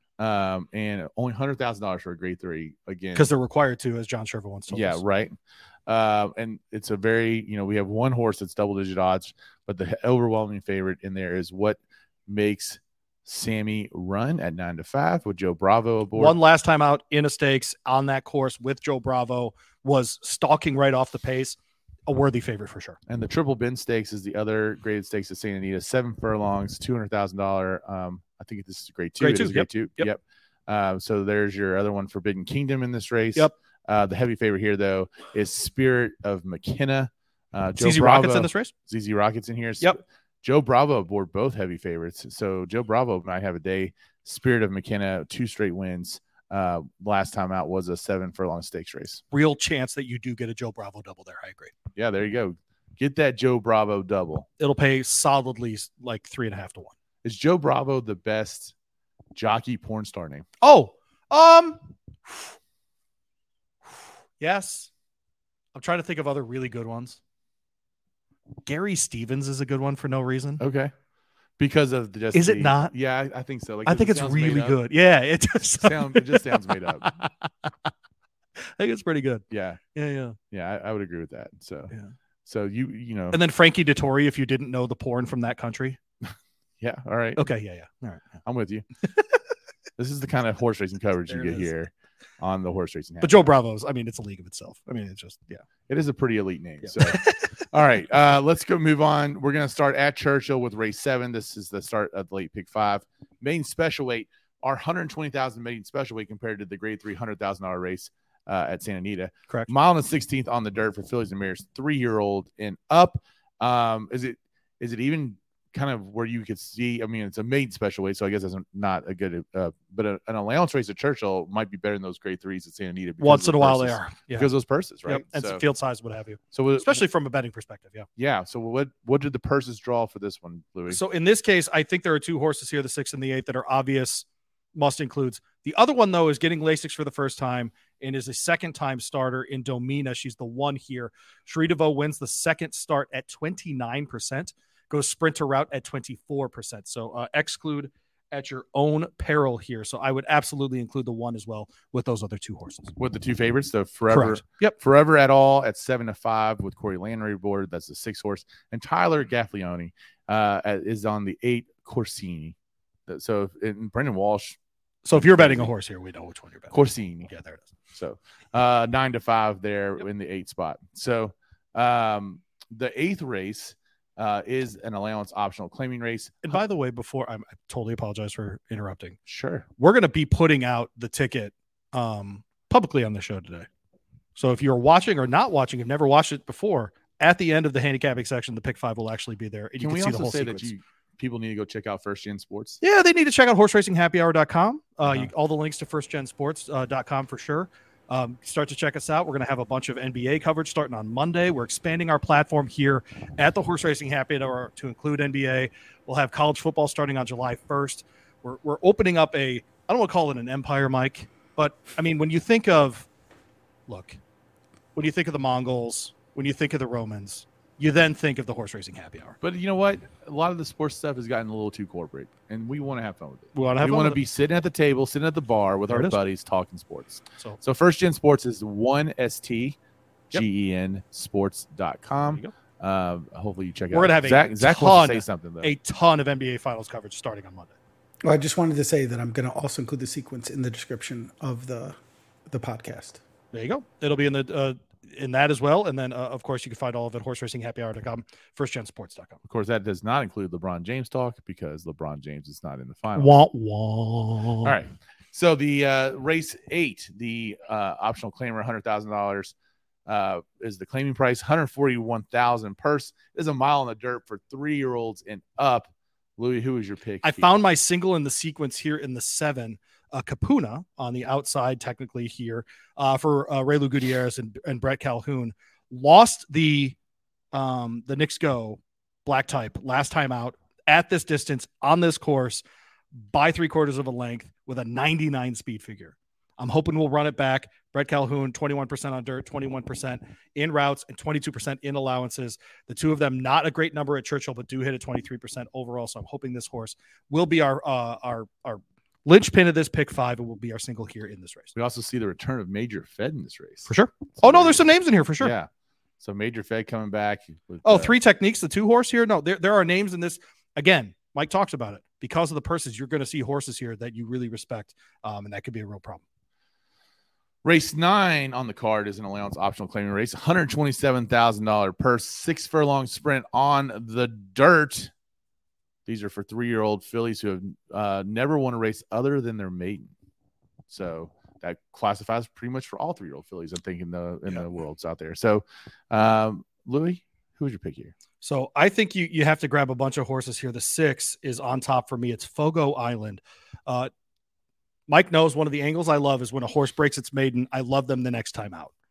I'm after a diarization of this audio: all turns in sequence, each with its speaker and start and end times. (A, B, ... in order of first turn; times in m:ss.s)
0:00.2-0:03.3 A
0:03.1-0:05.0 B
0:04.7-0:16.4 A
0:16.1-0:23.0 B
0:23.1-0:49.2 A
0:29.2-0:30.1 B
0:37.8-0:38.7 B
0:49.3-0:51.7 B
0:52.0-0:54.5 A
0:54.6-0:56.9 B
0:57.2-0:58.7 A
0:59.3-1:00.4 A
1:00.6-1:02.4 B
1:04.4-1:04.9 B
1:05.7-1:07.2 B
1:08.6-1:10.6 B
1:10.6-1:10.9 A
1:11.6-1:14.8 A
1:12.3-1:12.9 B
1:13.8-1:17.7 B
1:15.8-1:17.1 A
1:18.8-1:20.4 B
1:19.5-1:19.8 A
1:20.5-1:21.9 A
1:22.4-1:23.4 A
1:23.3-1:26.0 B
1:26.2-1:27.4 A
1:27.4-1:28.3 B
1:28.4-1:28.8 A
1:30.0-1:33.4 A
1:31.3-1:31.7 B
1:33.2-1:35.6 B
1:35.9-2:05.6 A
1:36.8-1:37.5 B
2:03.2-2:04.5 B
2:05.0-2:08.1 B
2:06.5-2:07.0 A
2:08.2-2:11.0 A
2:10.9-2:32.9 B
2:33.0-2:42.5 A
2:34.1-2:34.8 B
2:43.1-2:44.6 A
2:45.0-2:47.7 B
2:45.1-2:45.7 A
2:46.7-2:47.3 A
2:47.9-2:56.6 A
2:56.4-2:59.2 B
2:59.3-2:59.6 A
2:59.8-3:03.7 B
3:04.4-3:10.7 B
3:09.8-3:12.8 A
3:12.8-3:33.1 B
3:33.9-3:34.2 B
3:34.9-3:39.4 B
3:39.4-3:49.8 A
3:43.5-3:44.2 B
3:45.9-3:46.2 B
3:50.3-3:55.7 A
3:53.9-3:57.7 B
3:58.2-4:03.2 C
4:03.5-4:09.4 B
4:09.5-4:13.3 A
4:13.2-4:14.7 B
4:14.6-4:19.5 A
4:20.1-4:27.5 A
4:27.2-4:37.0 B
4:37.5-4:42.6 B
4:43.3-5:01.7 B
5:01.7-5:04.8 A
5:03.9-5:05.5 B
5:05.4-5:05.7 A
5:06.2-5:08.1 A
5:07.8-5:16.2 B
5:17.6-5:25.1 A
5:26.0-5:30.1 A
5:30.9-5:38.1 A
5:38.4-5:44.1 B
5:45.1-5:48.9 B